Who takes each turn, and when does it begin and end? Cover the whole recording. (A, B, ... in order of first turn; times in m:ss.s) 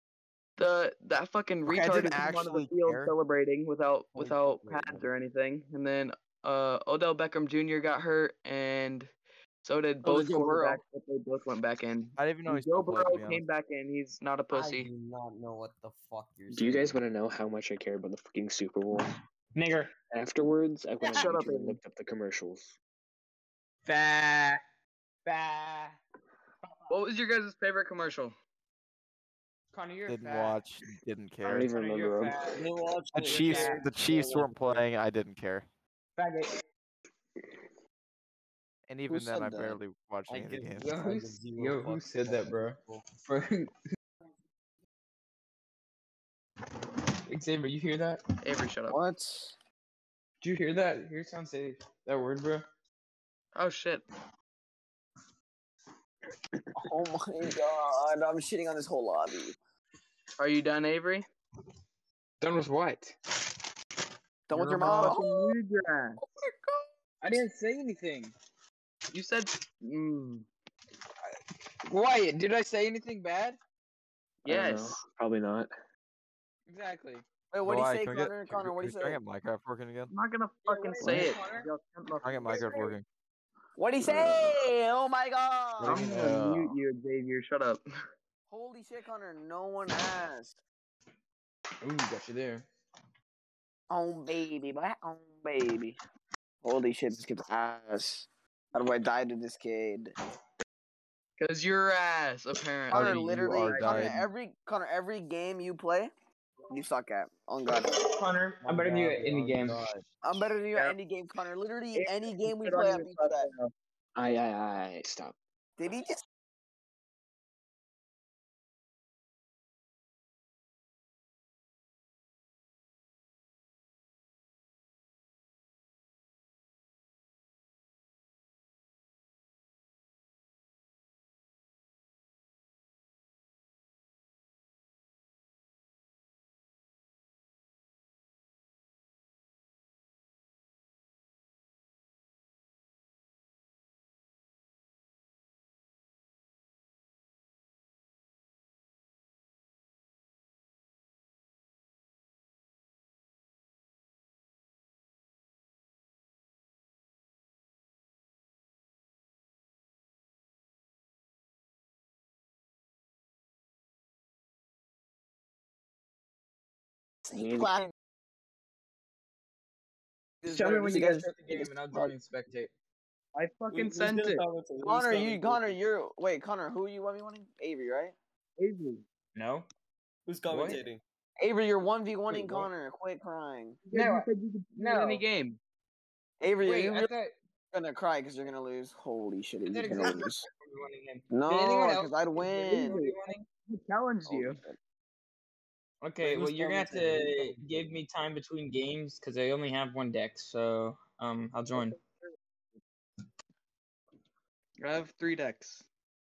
0:00.6-0:09.1 A
0:01.6-0:03.1 B
0:04.1-0:05.0 C
0:09.6-0:14.9 A
0:12.2-0:13.4 B
0:14.5-0:17.0 C
0:16.5-0:19.1 D
0:19.5-0:19.9 E
0:20.1-0:22.8 D
0:21.1-0:21.8 A
0:23.8-0:24.6 E
0:25.2-0:26.0 E
0:26.9-0:28.3 A
0:29.7-0:30.6 E
0:30.1-0:31.7 B
0:31.4-0:32.6 D
0:31.7-0:32.6 E
0:32.6-0:34.8 C
0:33.1-0:35.7 B
0:33.3-0:33.8 E
0:36.2-0:36.5 E
0:38.9-0:40.9 B
0:39.1-0:39.8 F
0:40.3-0:43.0 C
0:40.8-0:43.7 E
0:47.3-0:48.2 E
0:48.4-0:49.0 A
0:48.9-0:49.5 F
0:50.4-0:52.6 E
0:53.5-0:54.0 A
0:56.8-0:59.5 F
1:00.4-1:01.2 A
1:02.4-1:03.1 E
1:04.5-1:05.5 F
1:04.5-1:05.2 E
1:04.8-1:06.2 A
1:07.2-1:08.3 E
1:09.1-1:10.4 A
1:11.9-1:13.6 E
1:14.4-1:15.0 A
1:14.4-1:15.7 D
1:16.7-1:17.2 E
1:17.5-1:19.2 F
1:17.6-1:20.1 B
1:20.1-1:22.9 A
1:20.6-1:21.7 E
1:22.2-1:23.0 B
1:23.8-1:26.1 F
1:24.0-1:24.5 D
1:25.8-1:26.8 B
1:25.8-1:27.8 A
1:28.5-1:30.6 F
1:31.8-1:32.6 E
1:33.9-1:36.0 F
1:36.6-1:40.1 F
1:41.4-1:44.2 A
1:42.9-1:44.2 B
1:42.9-1:46.1 F
1:46.7-1:48.1 F
1:47.8-1:49.8 E
1:48.6-1:50.0 C
1:50.2-1:53.5 F
1:52.0-1:53.7 A
1:54.2-1:55.4 D
1:55.8-1:56.2 F
2:47.2-2:47.9 F
2:47.3-2:47.7 D
2:50.4-2:52.7 E
2:50.4-2:52.1 F
2:53.3-2:54.4 A
2:53.7-2:55.8 C
2:54.8-2:58.1 F
2:58.6-2:59.0 A
2:59.3-2:59.7 E
3:00.3-3:01.0 C
3:00.5-3:00.8 E
3:01.4-3:03.8 F
3:02.3-3:02.7 C
3:03.8-3:05.6 A
3:03.9-3:05.2 E
3:06.4-3:07.1 F
3:06.6-3:07.3 E
3:07.7-3:10.5 F
3:09.6-3:13.5 E
3:11.3-3:13.0 F
3:12.7-3:14.6 A
3:14.3-3:14.7 F
3:16.0-3:22.0 E
3:16.2-3:17.9 C
3:24.8-3:25.8 A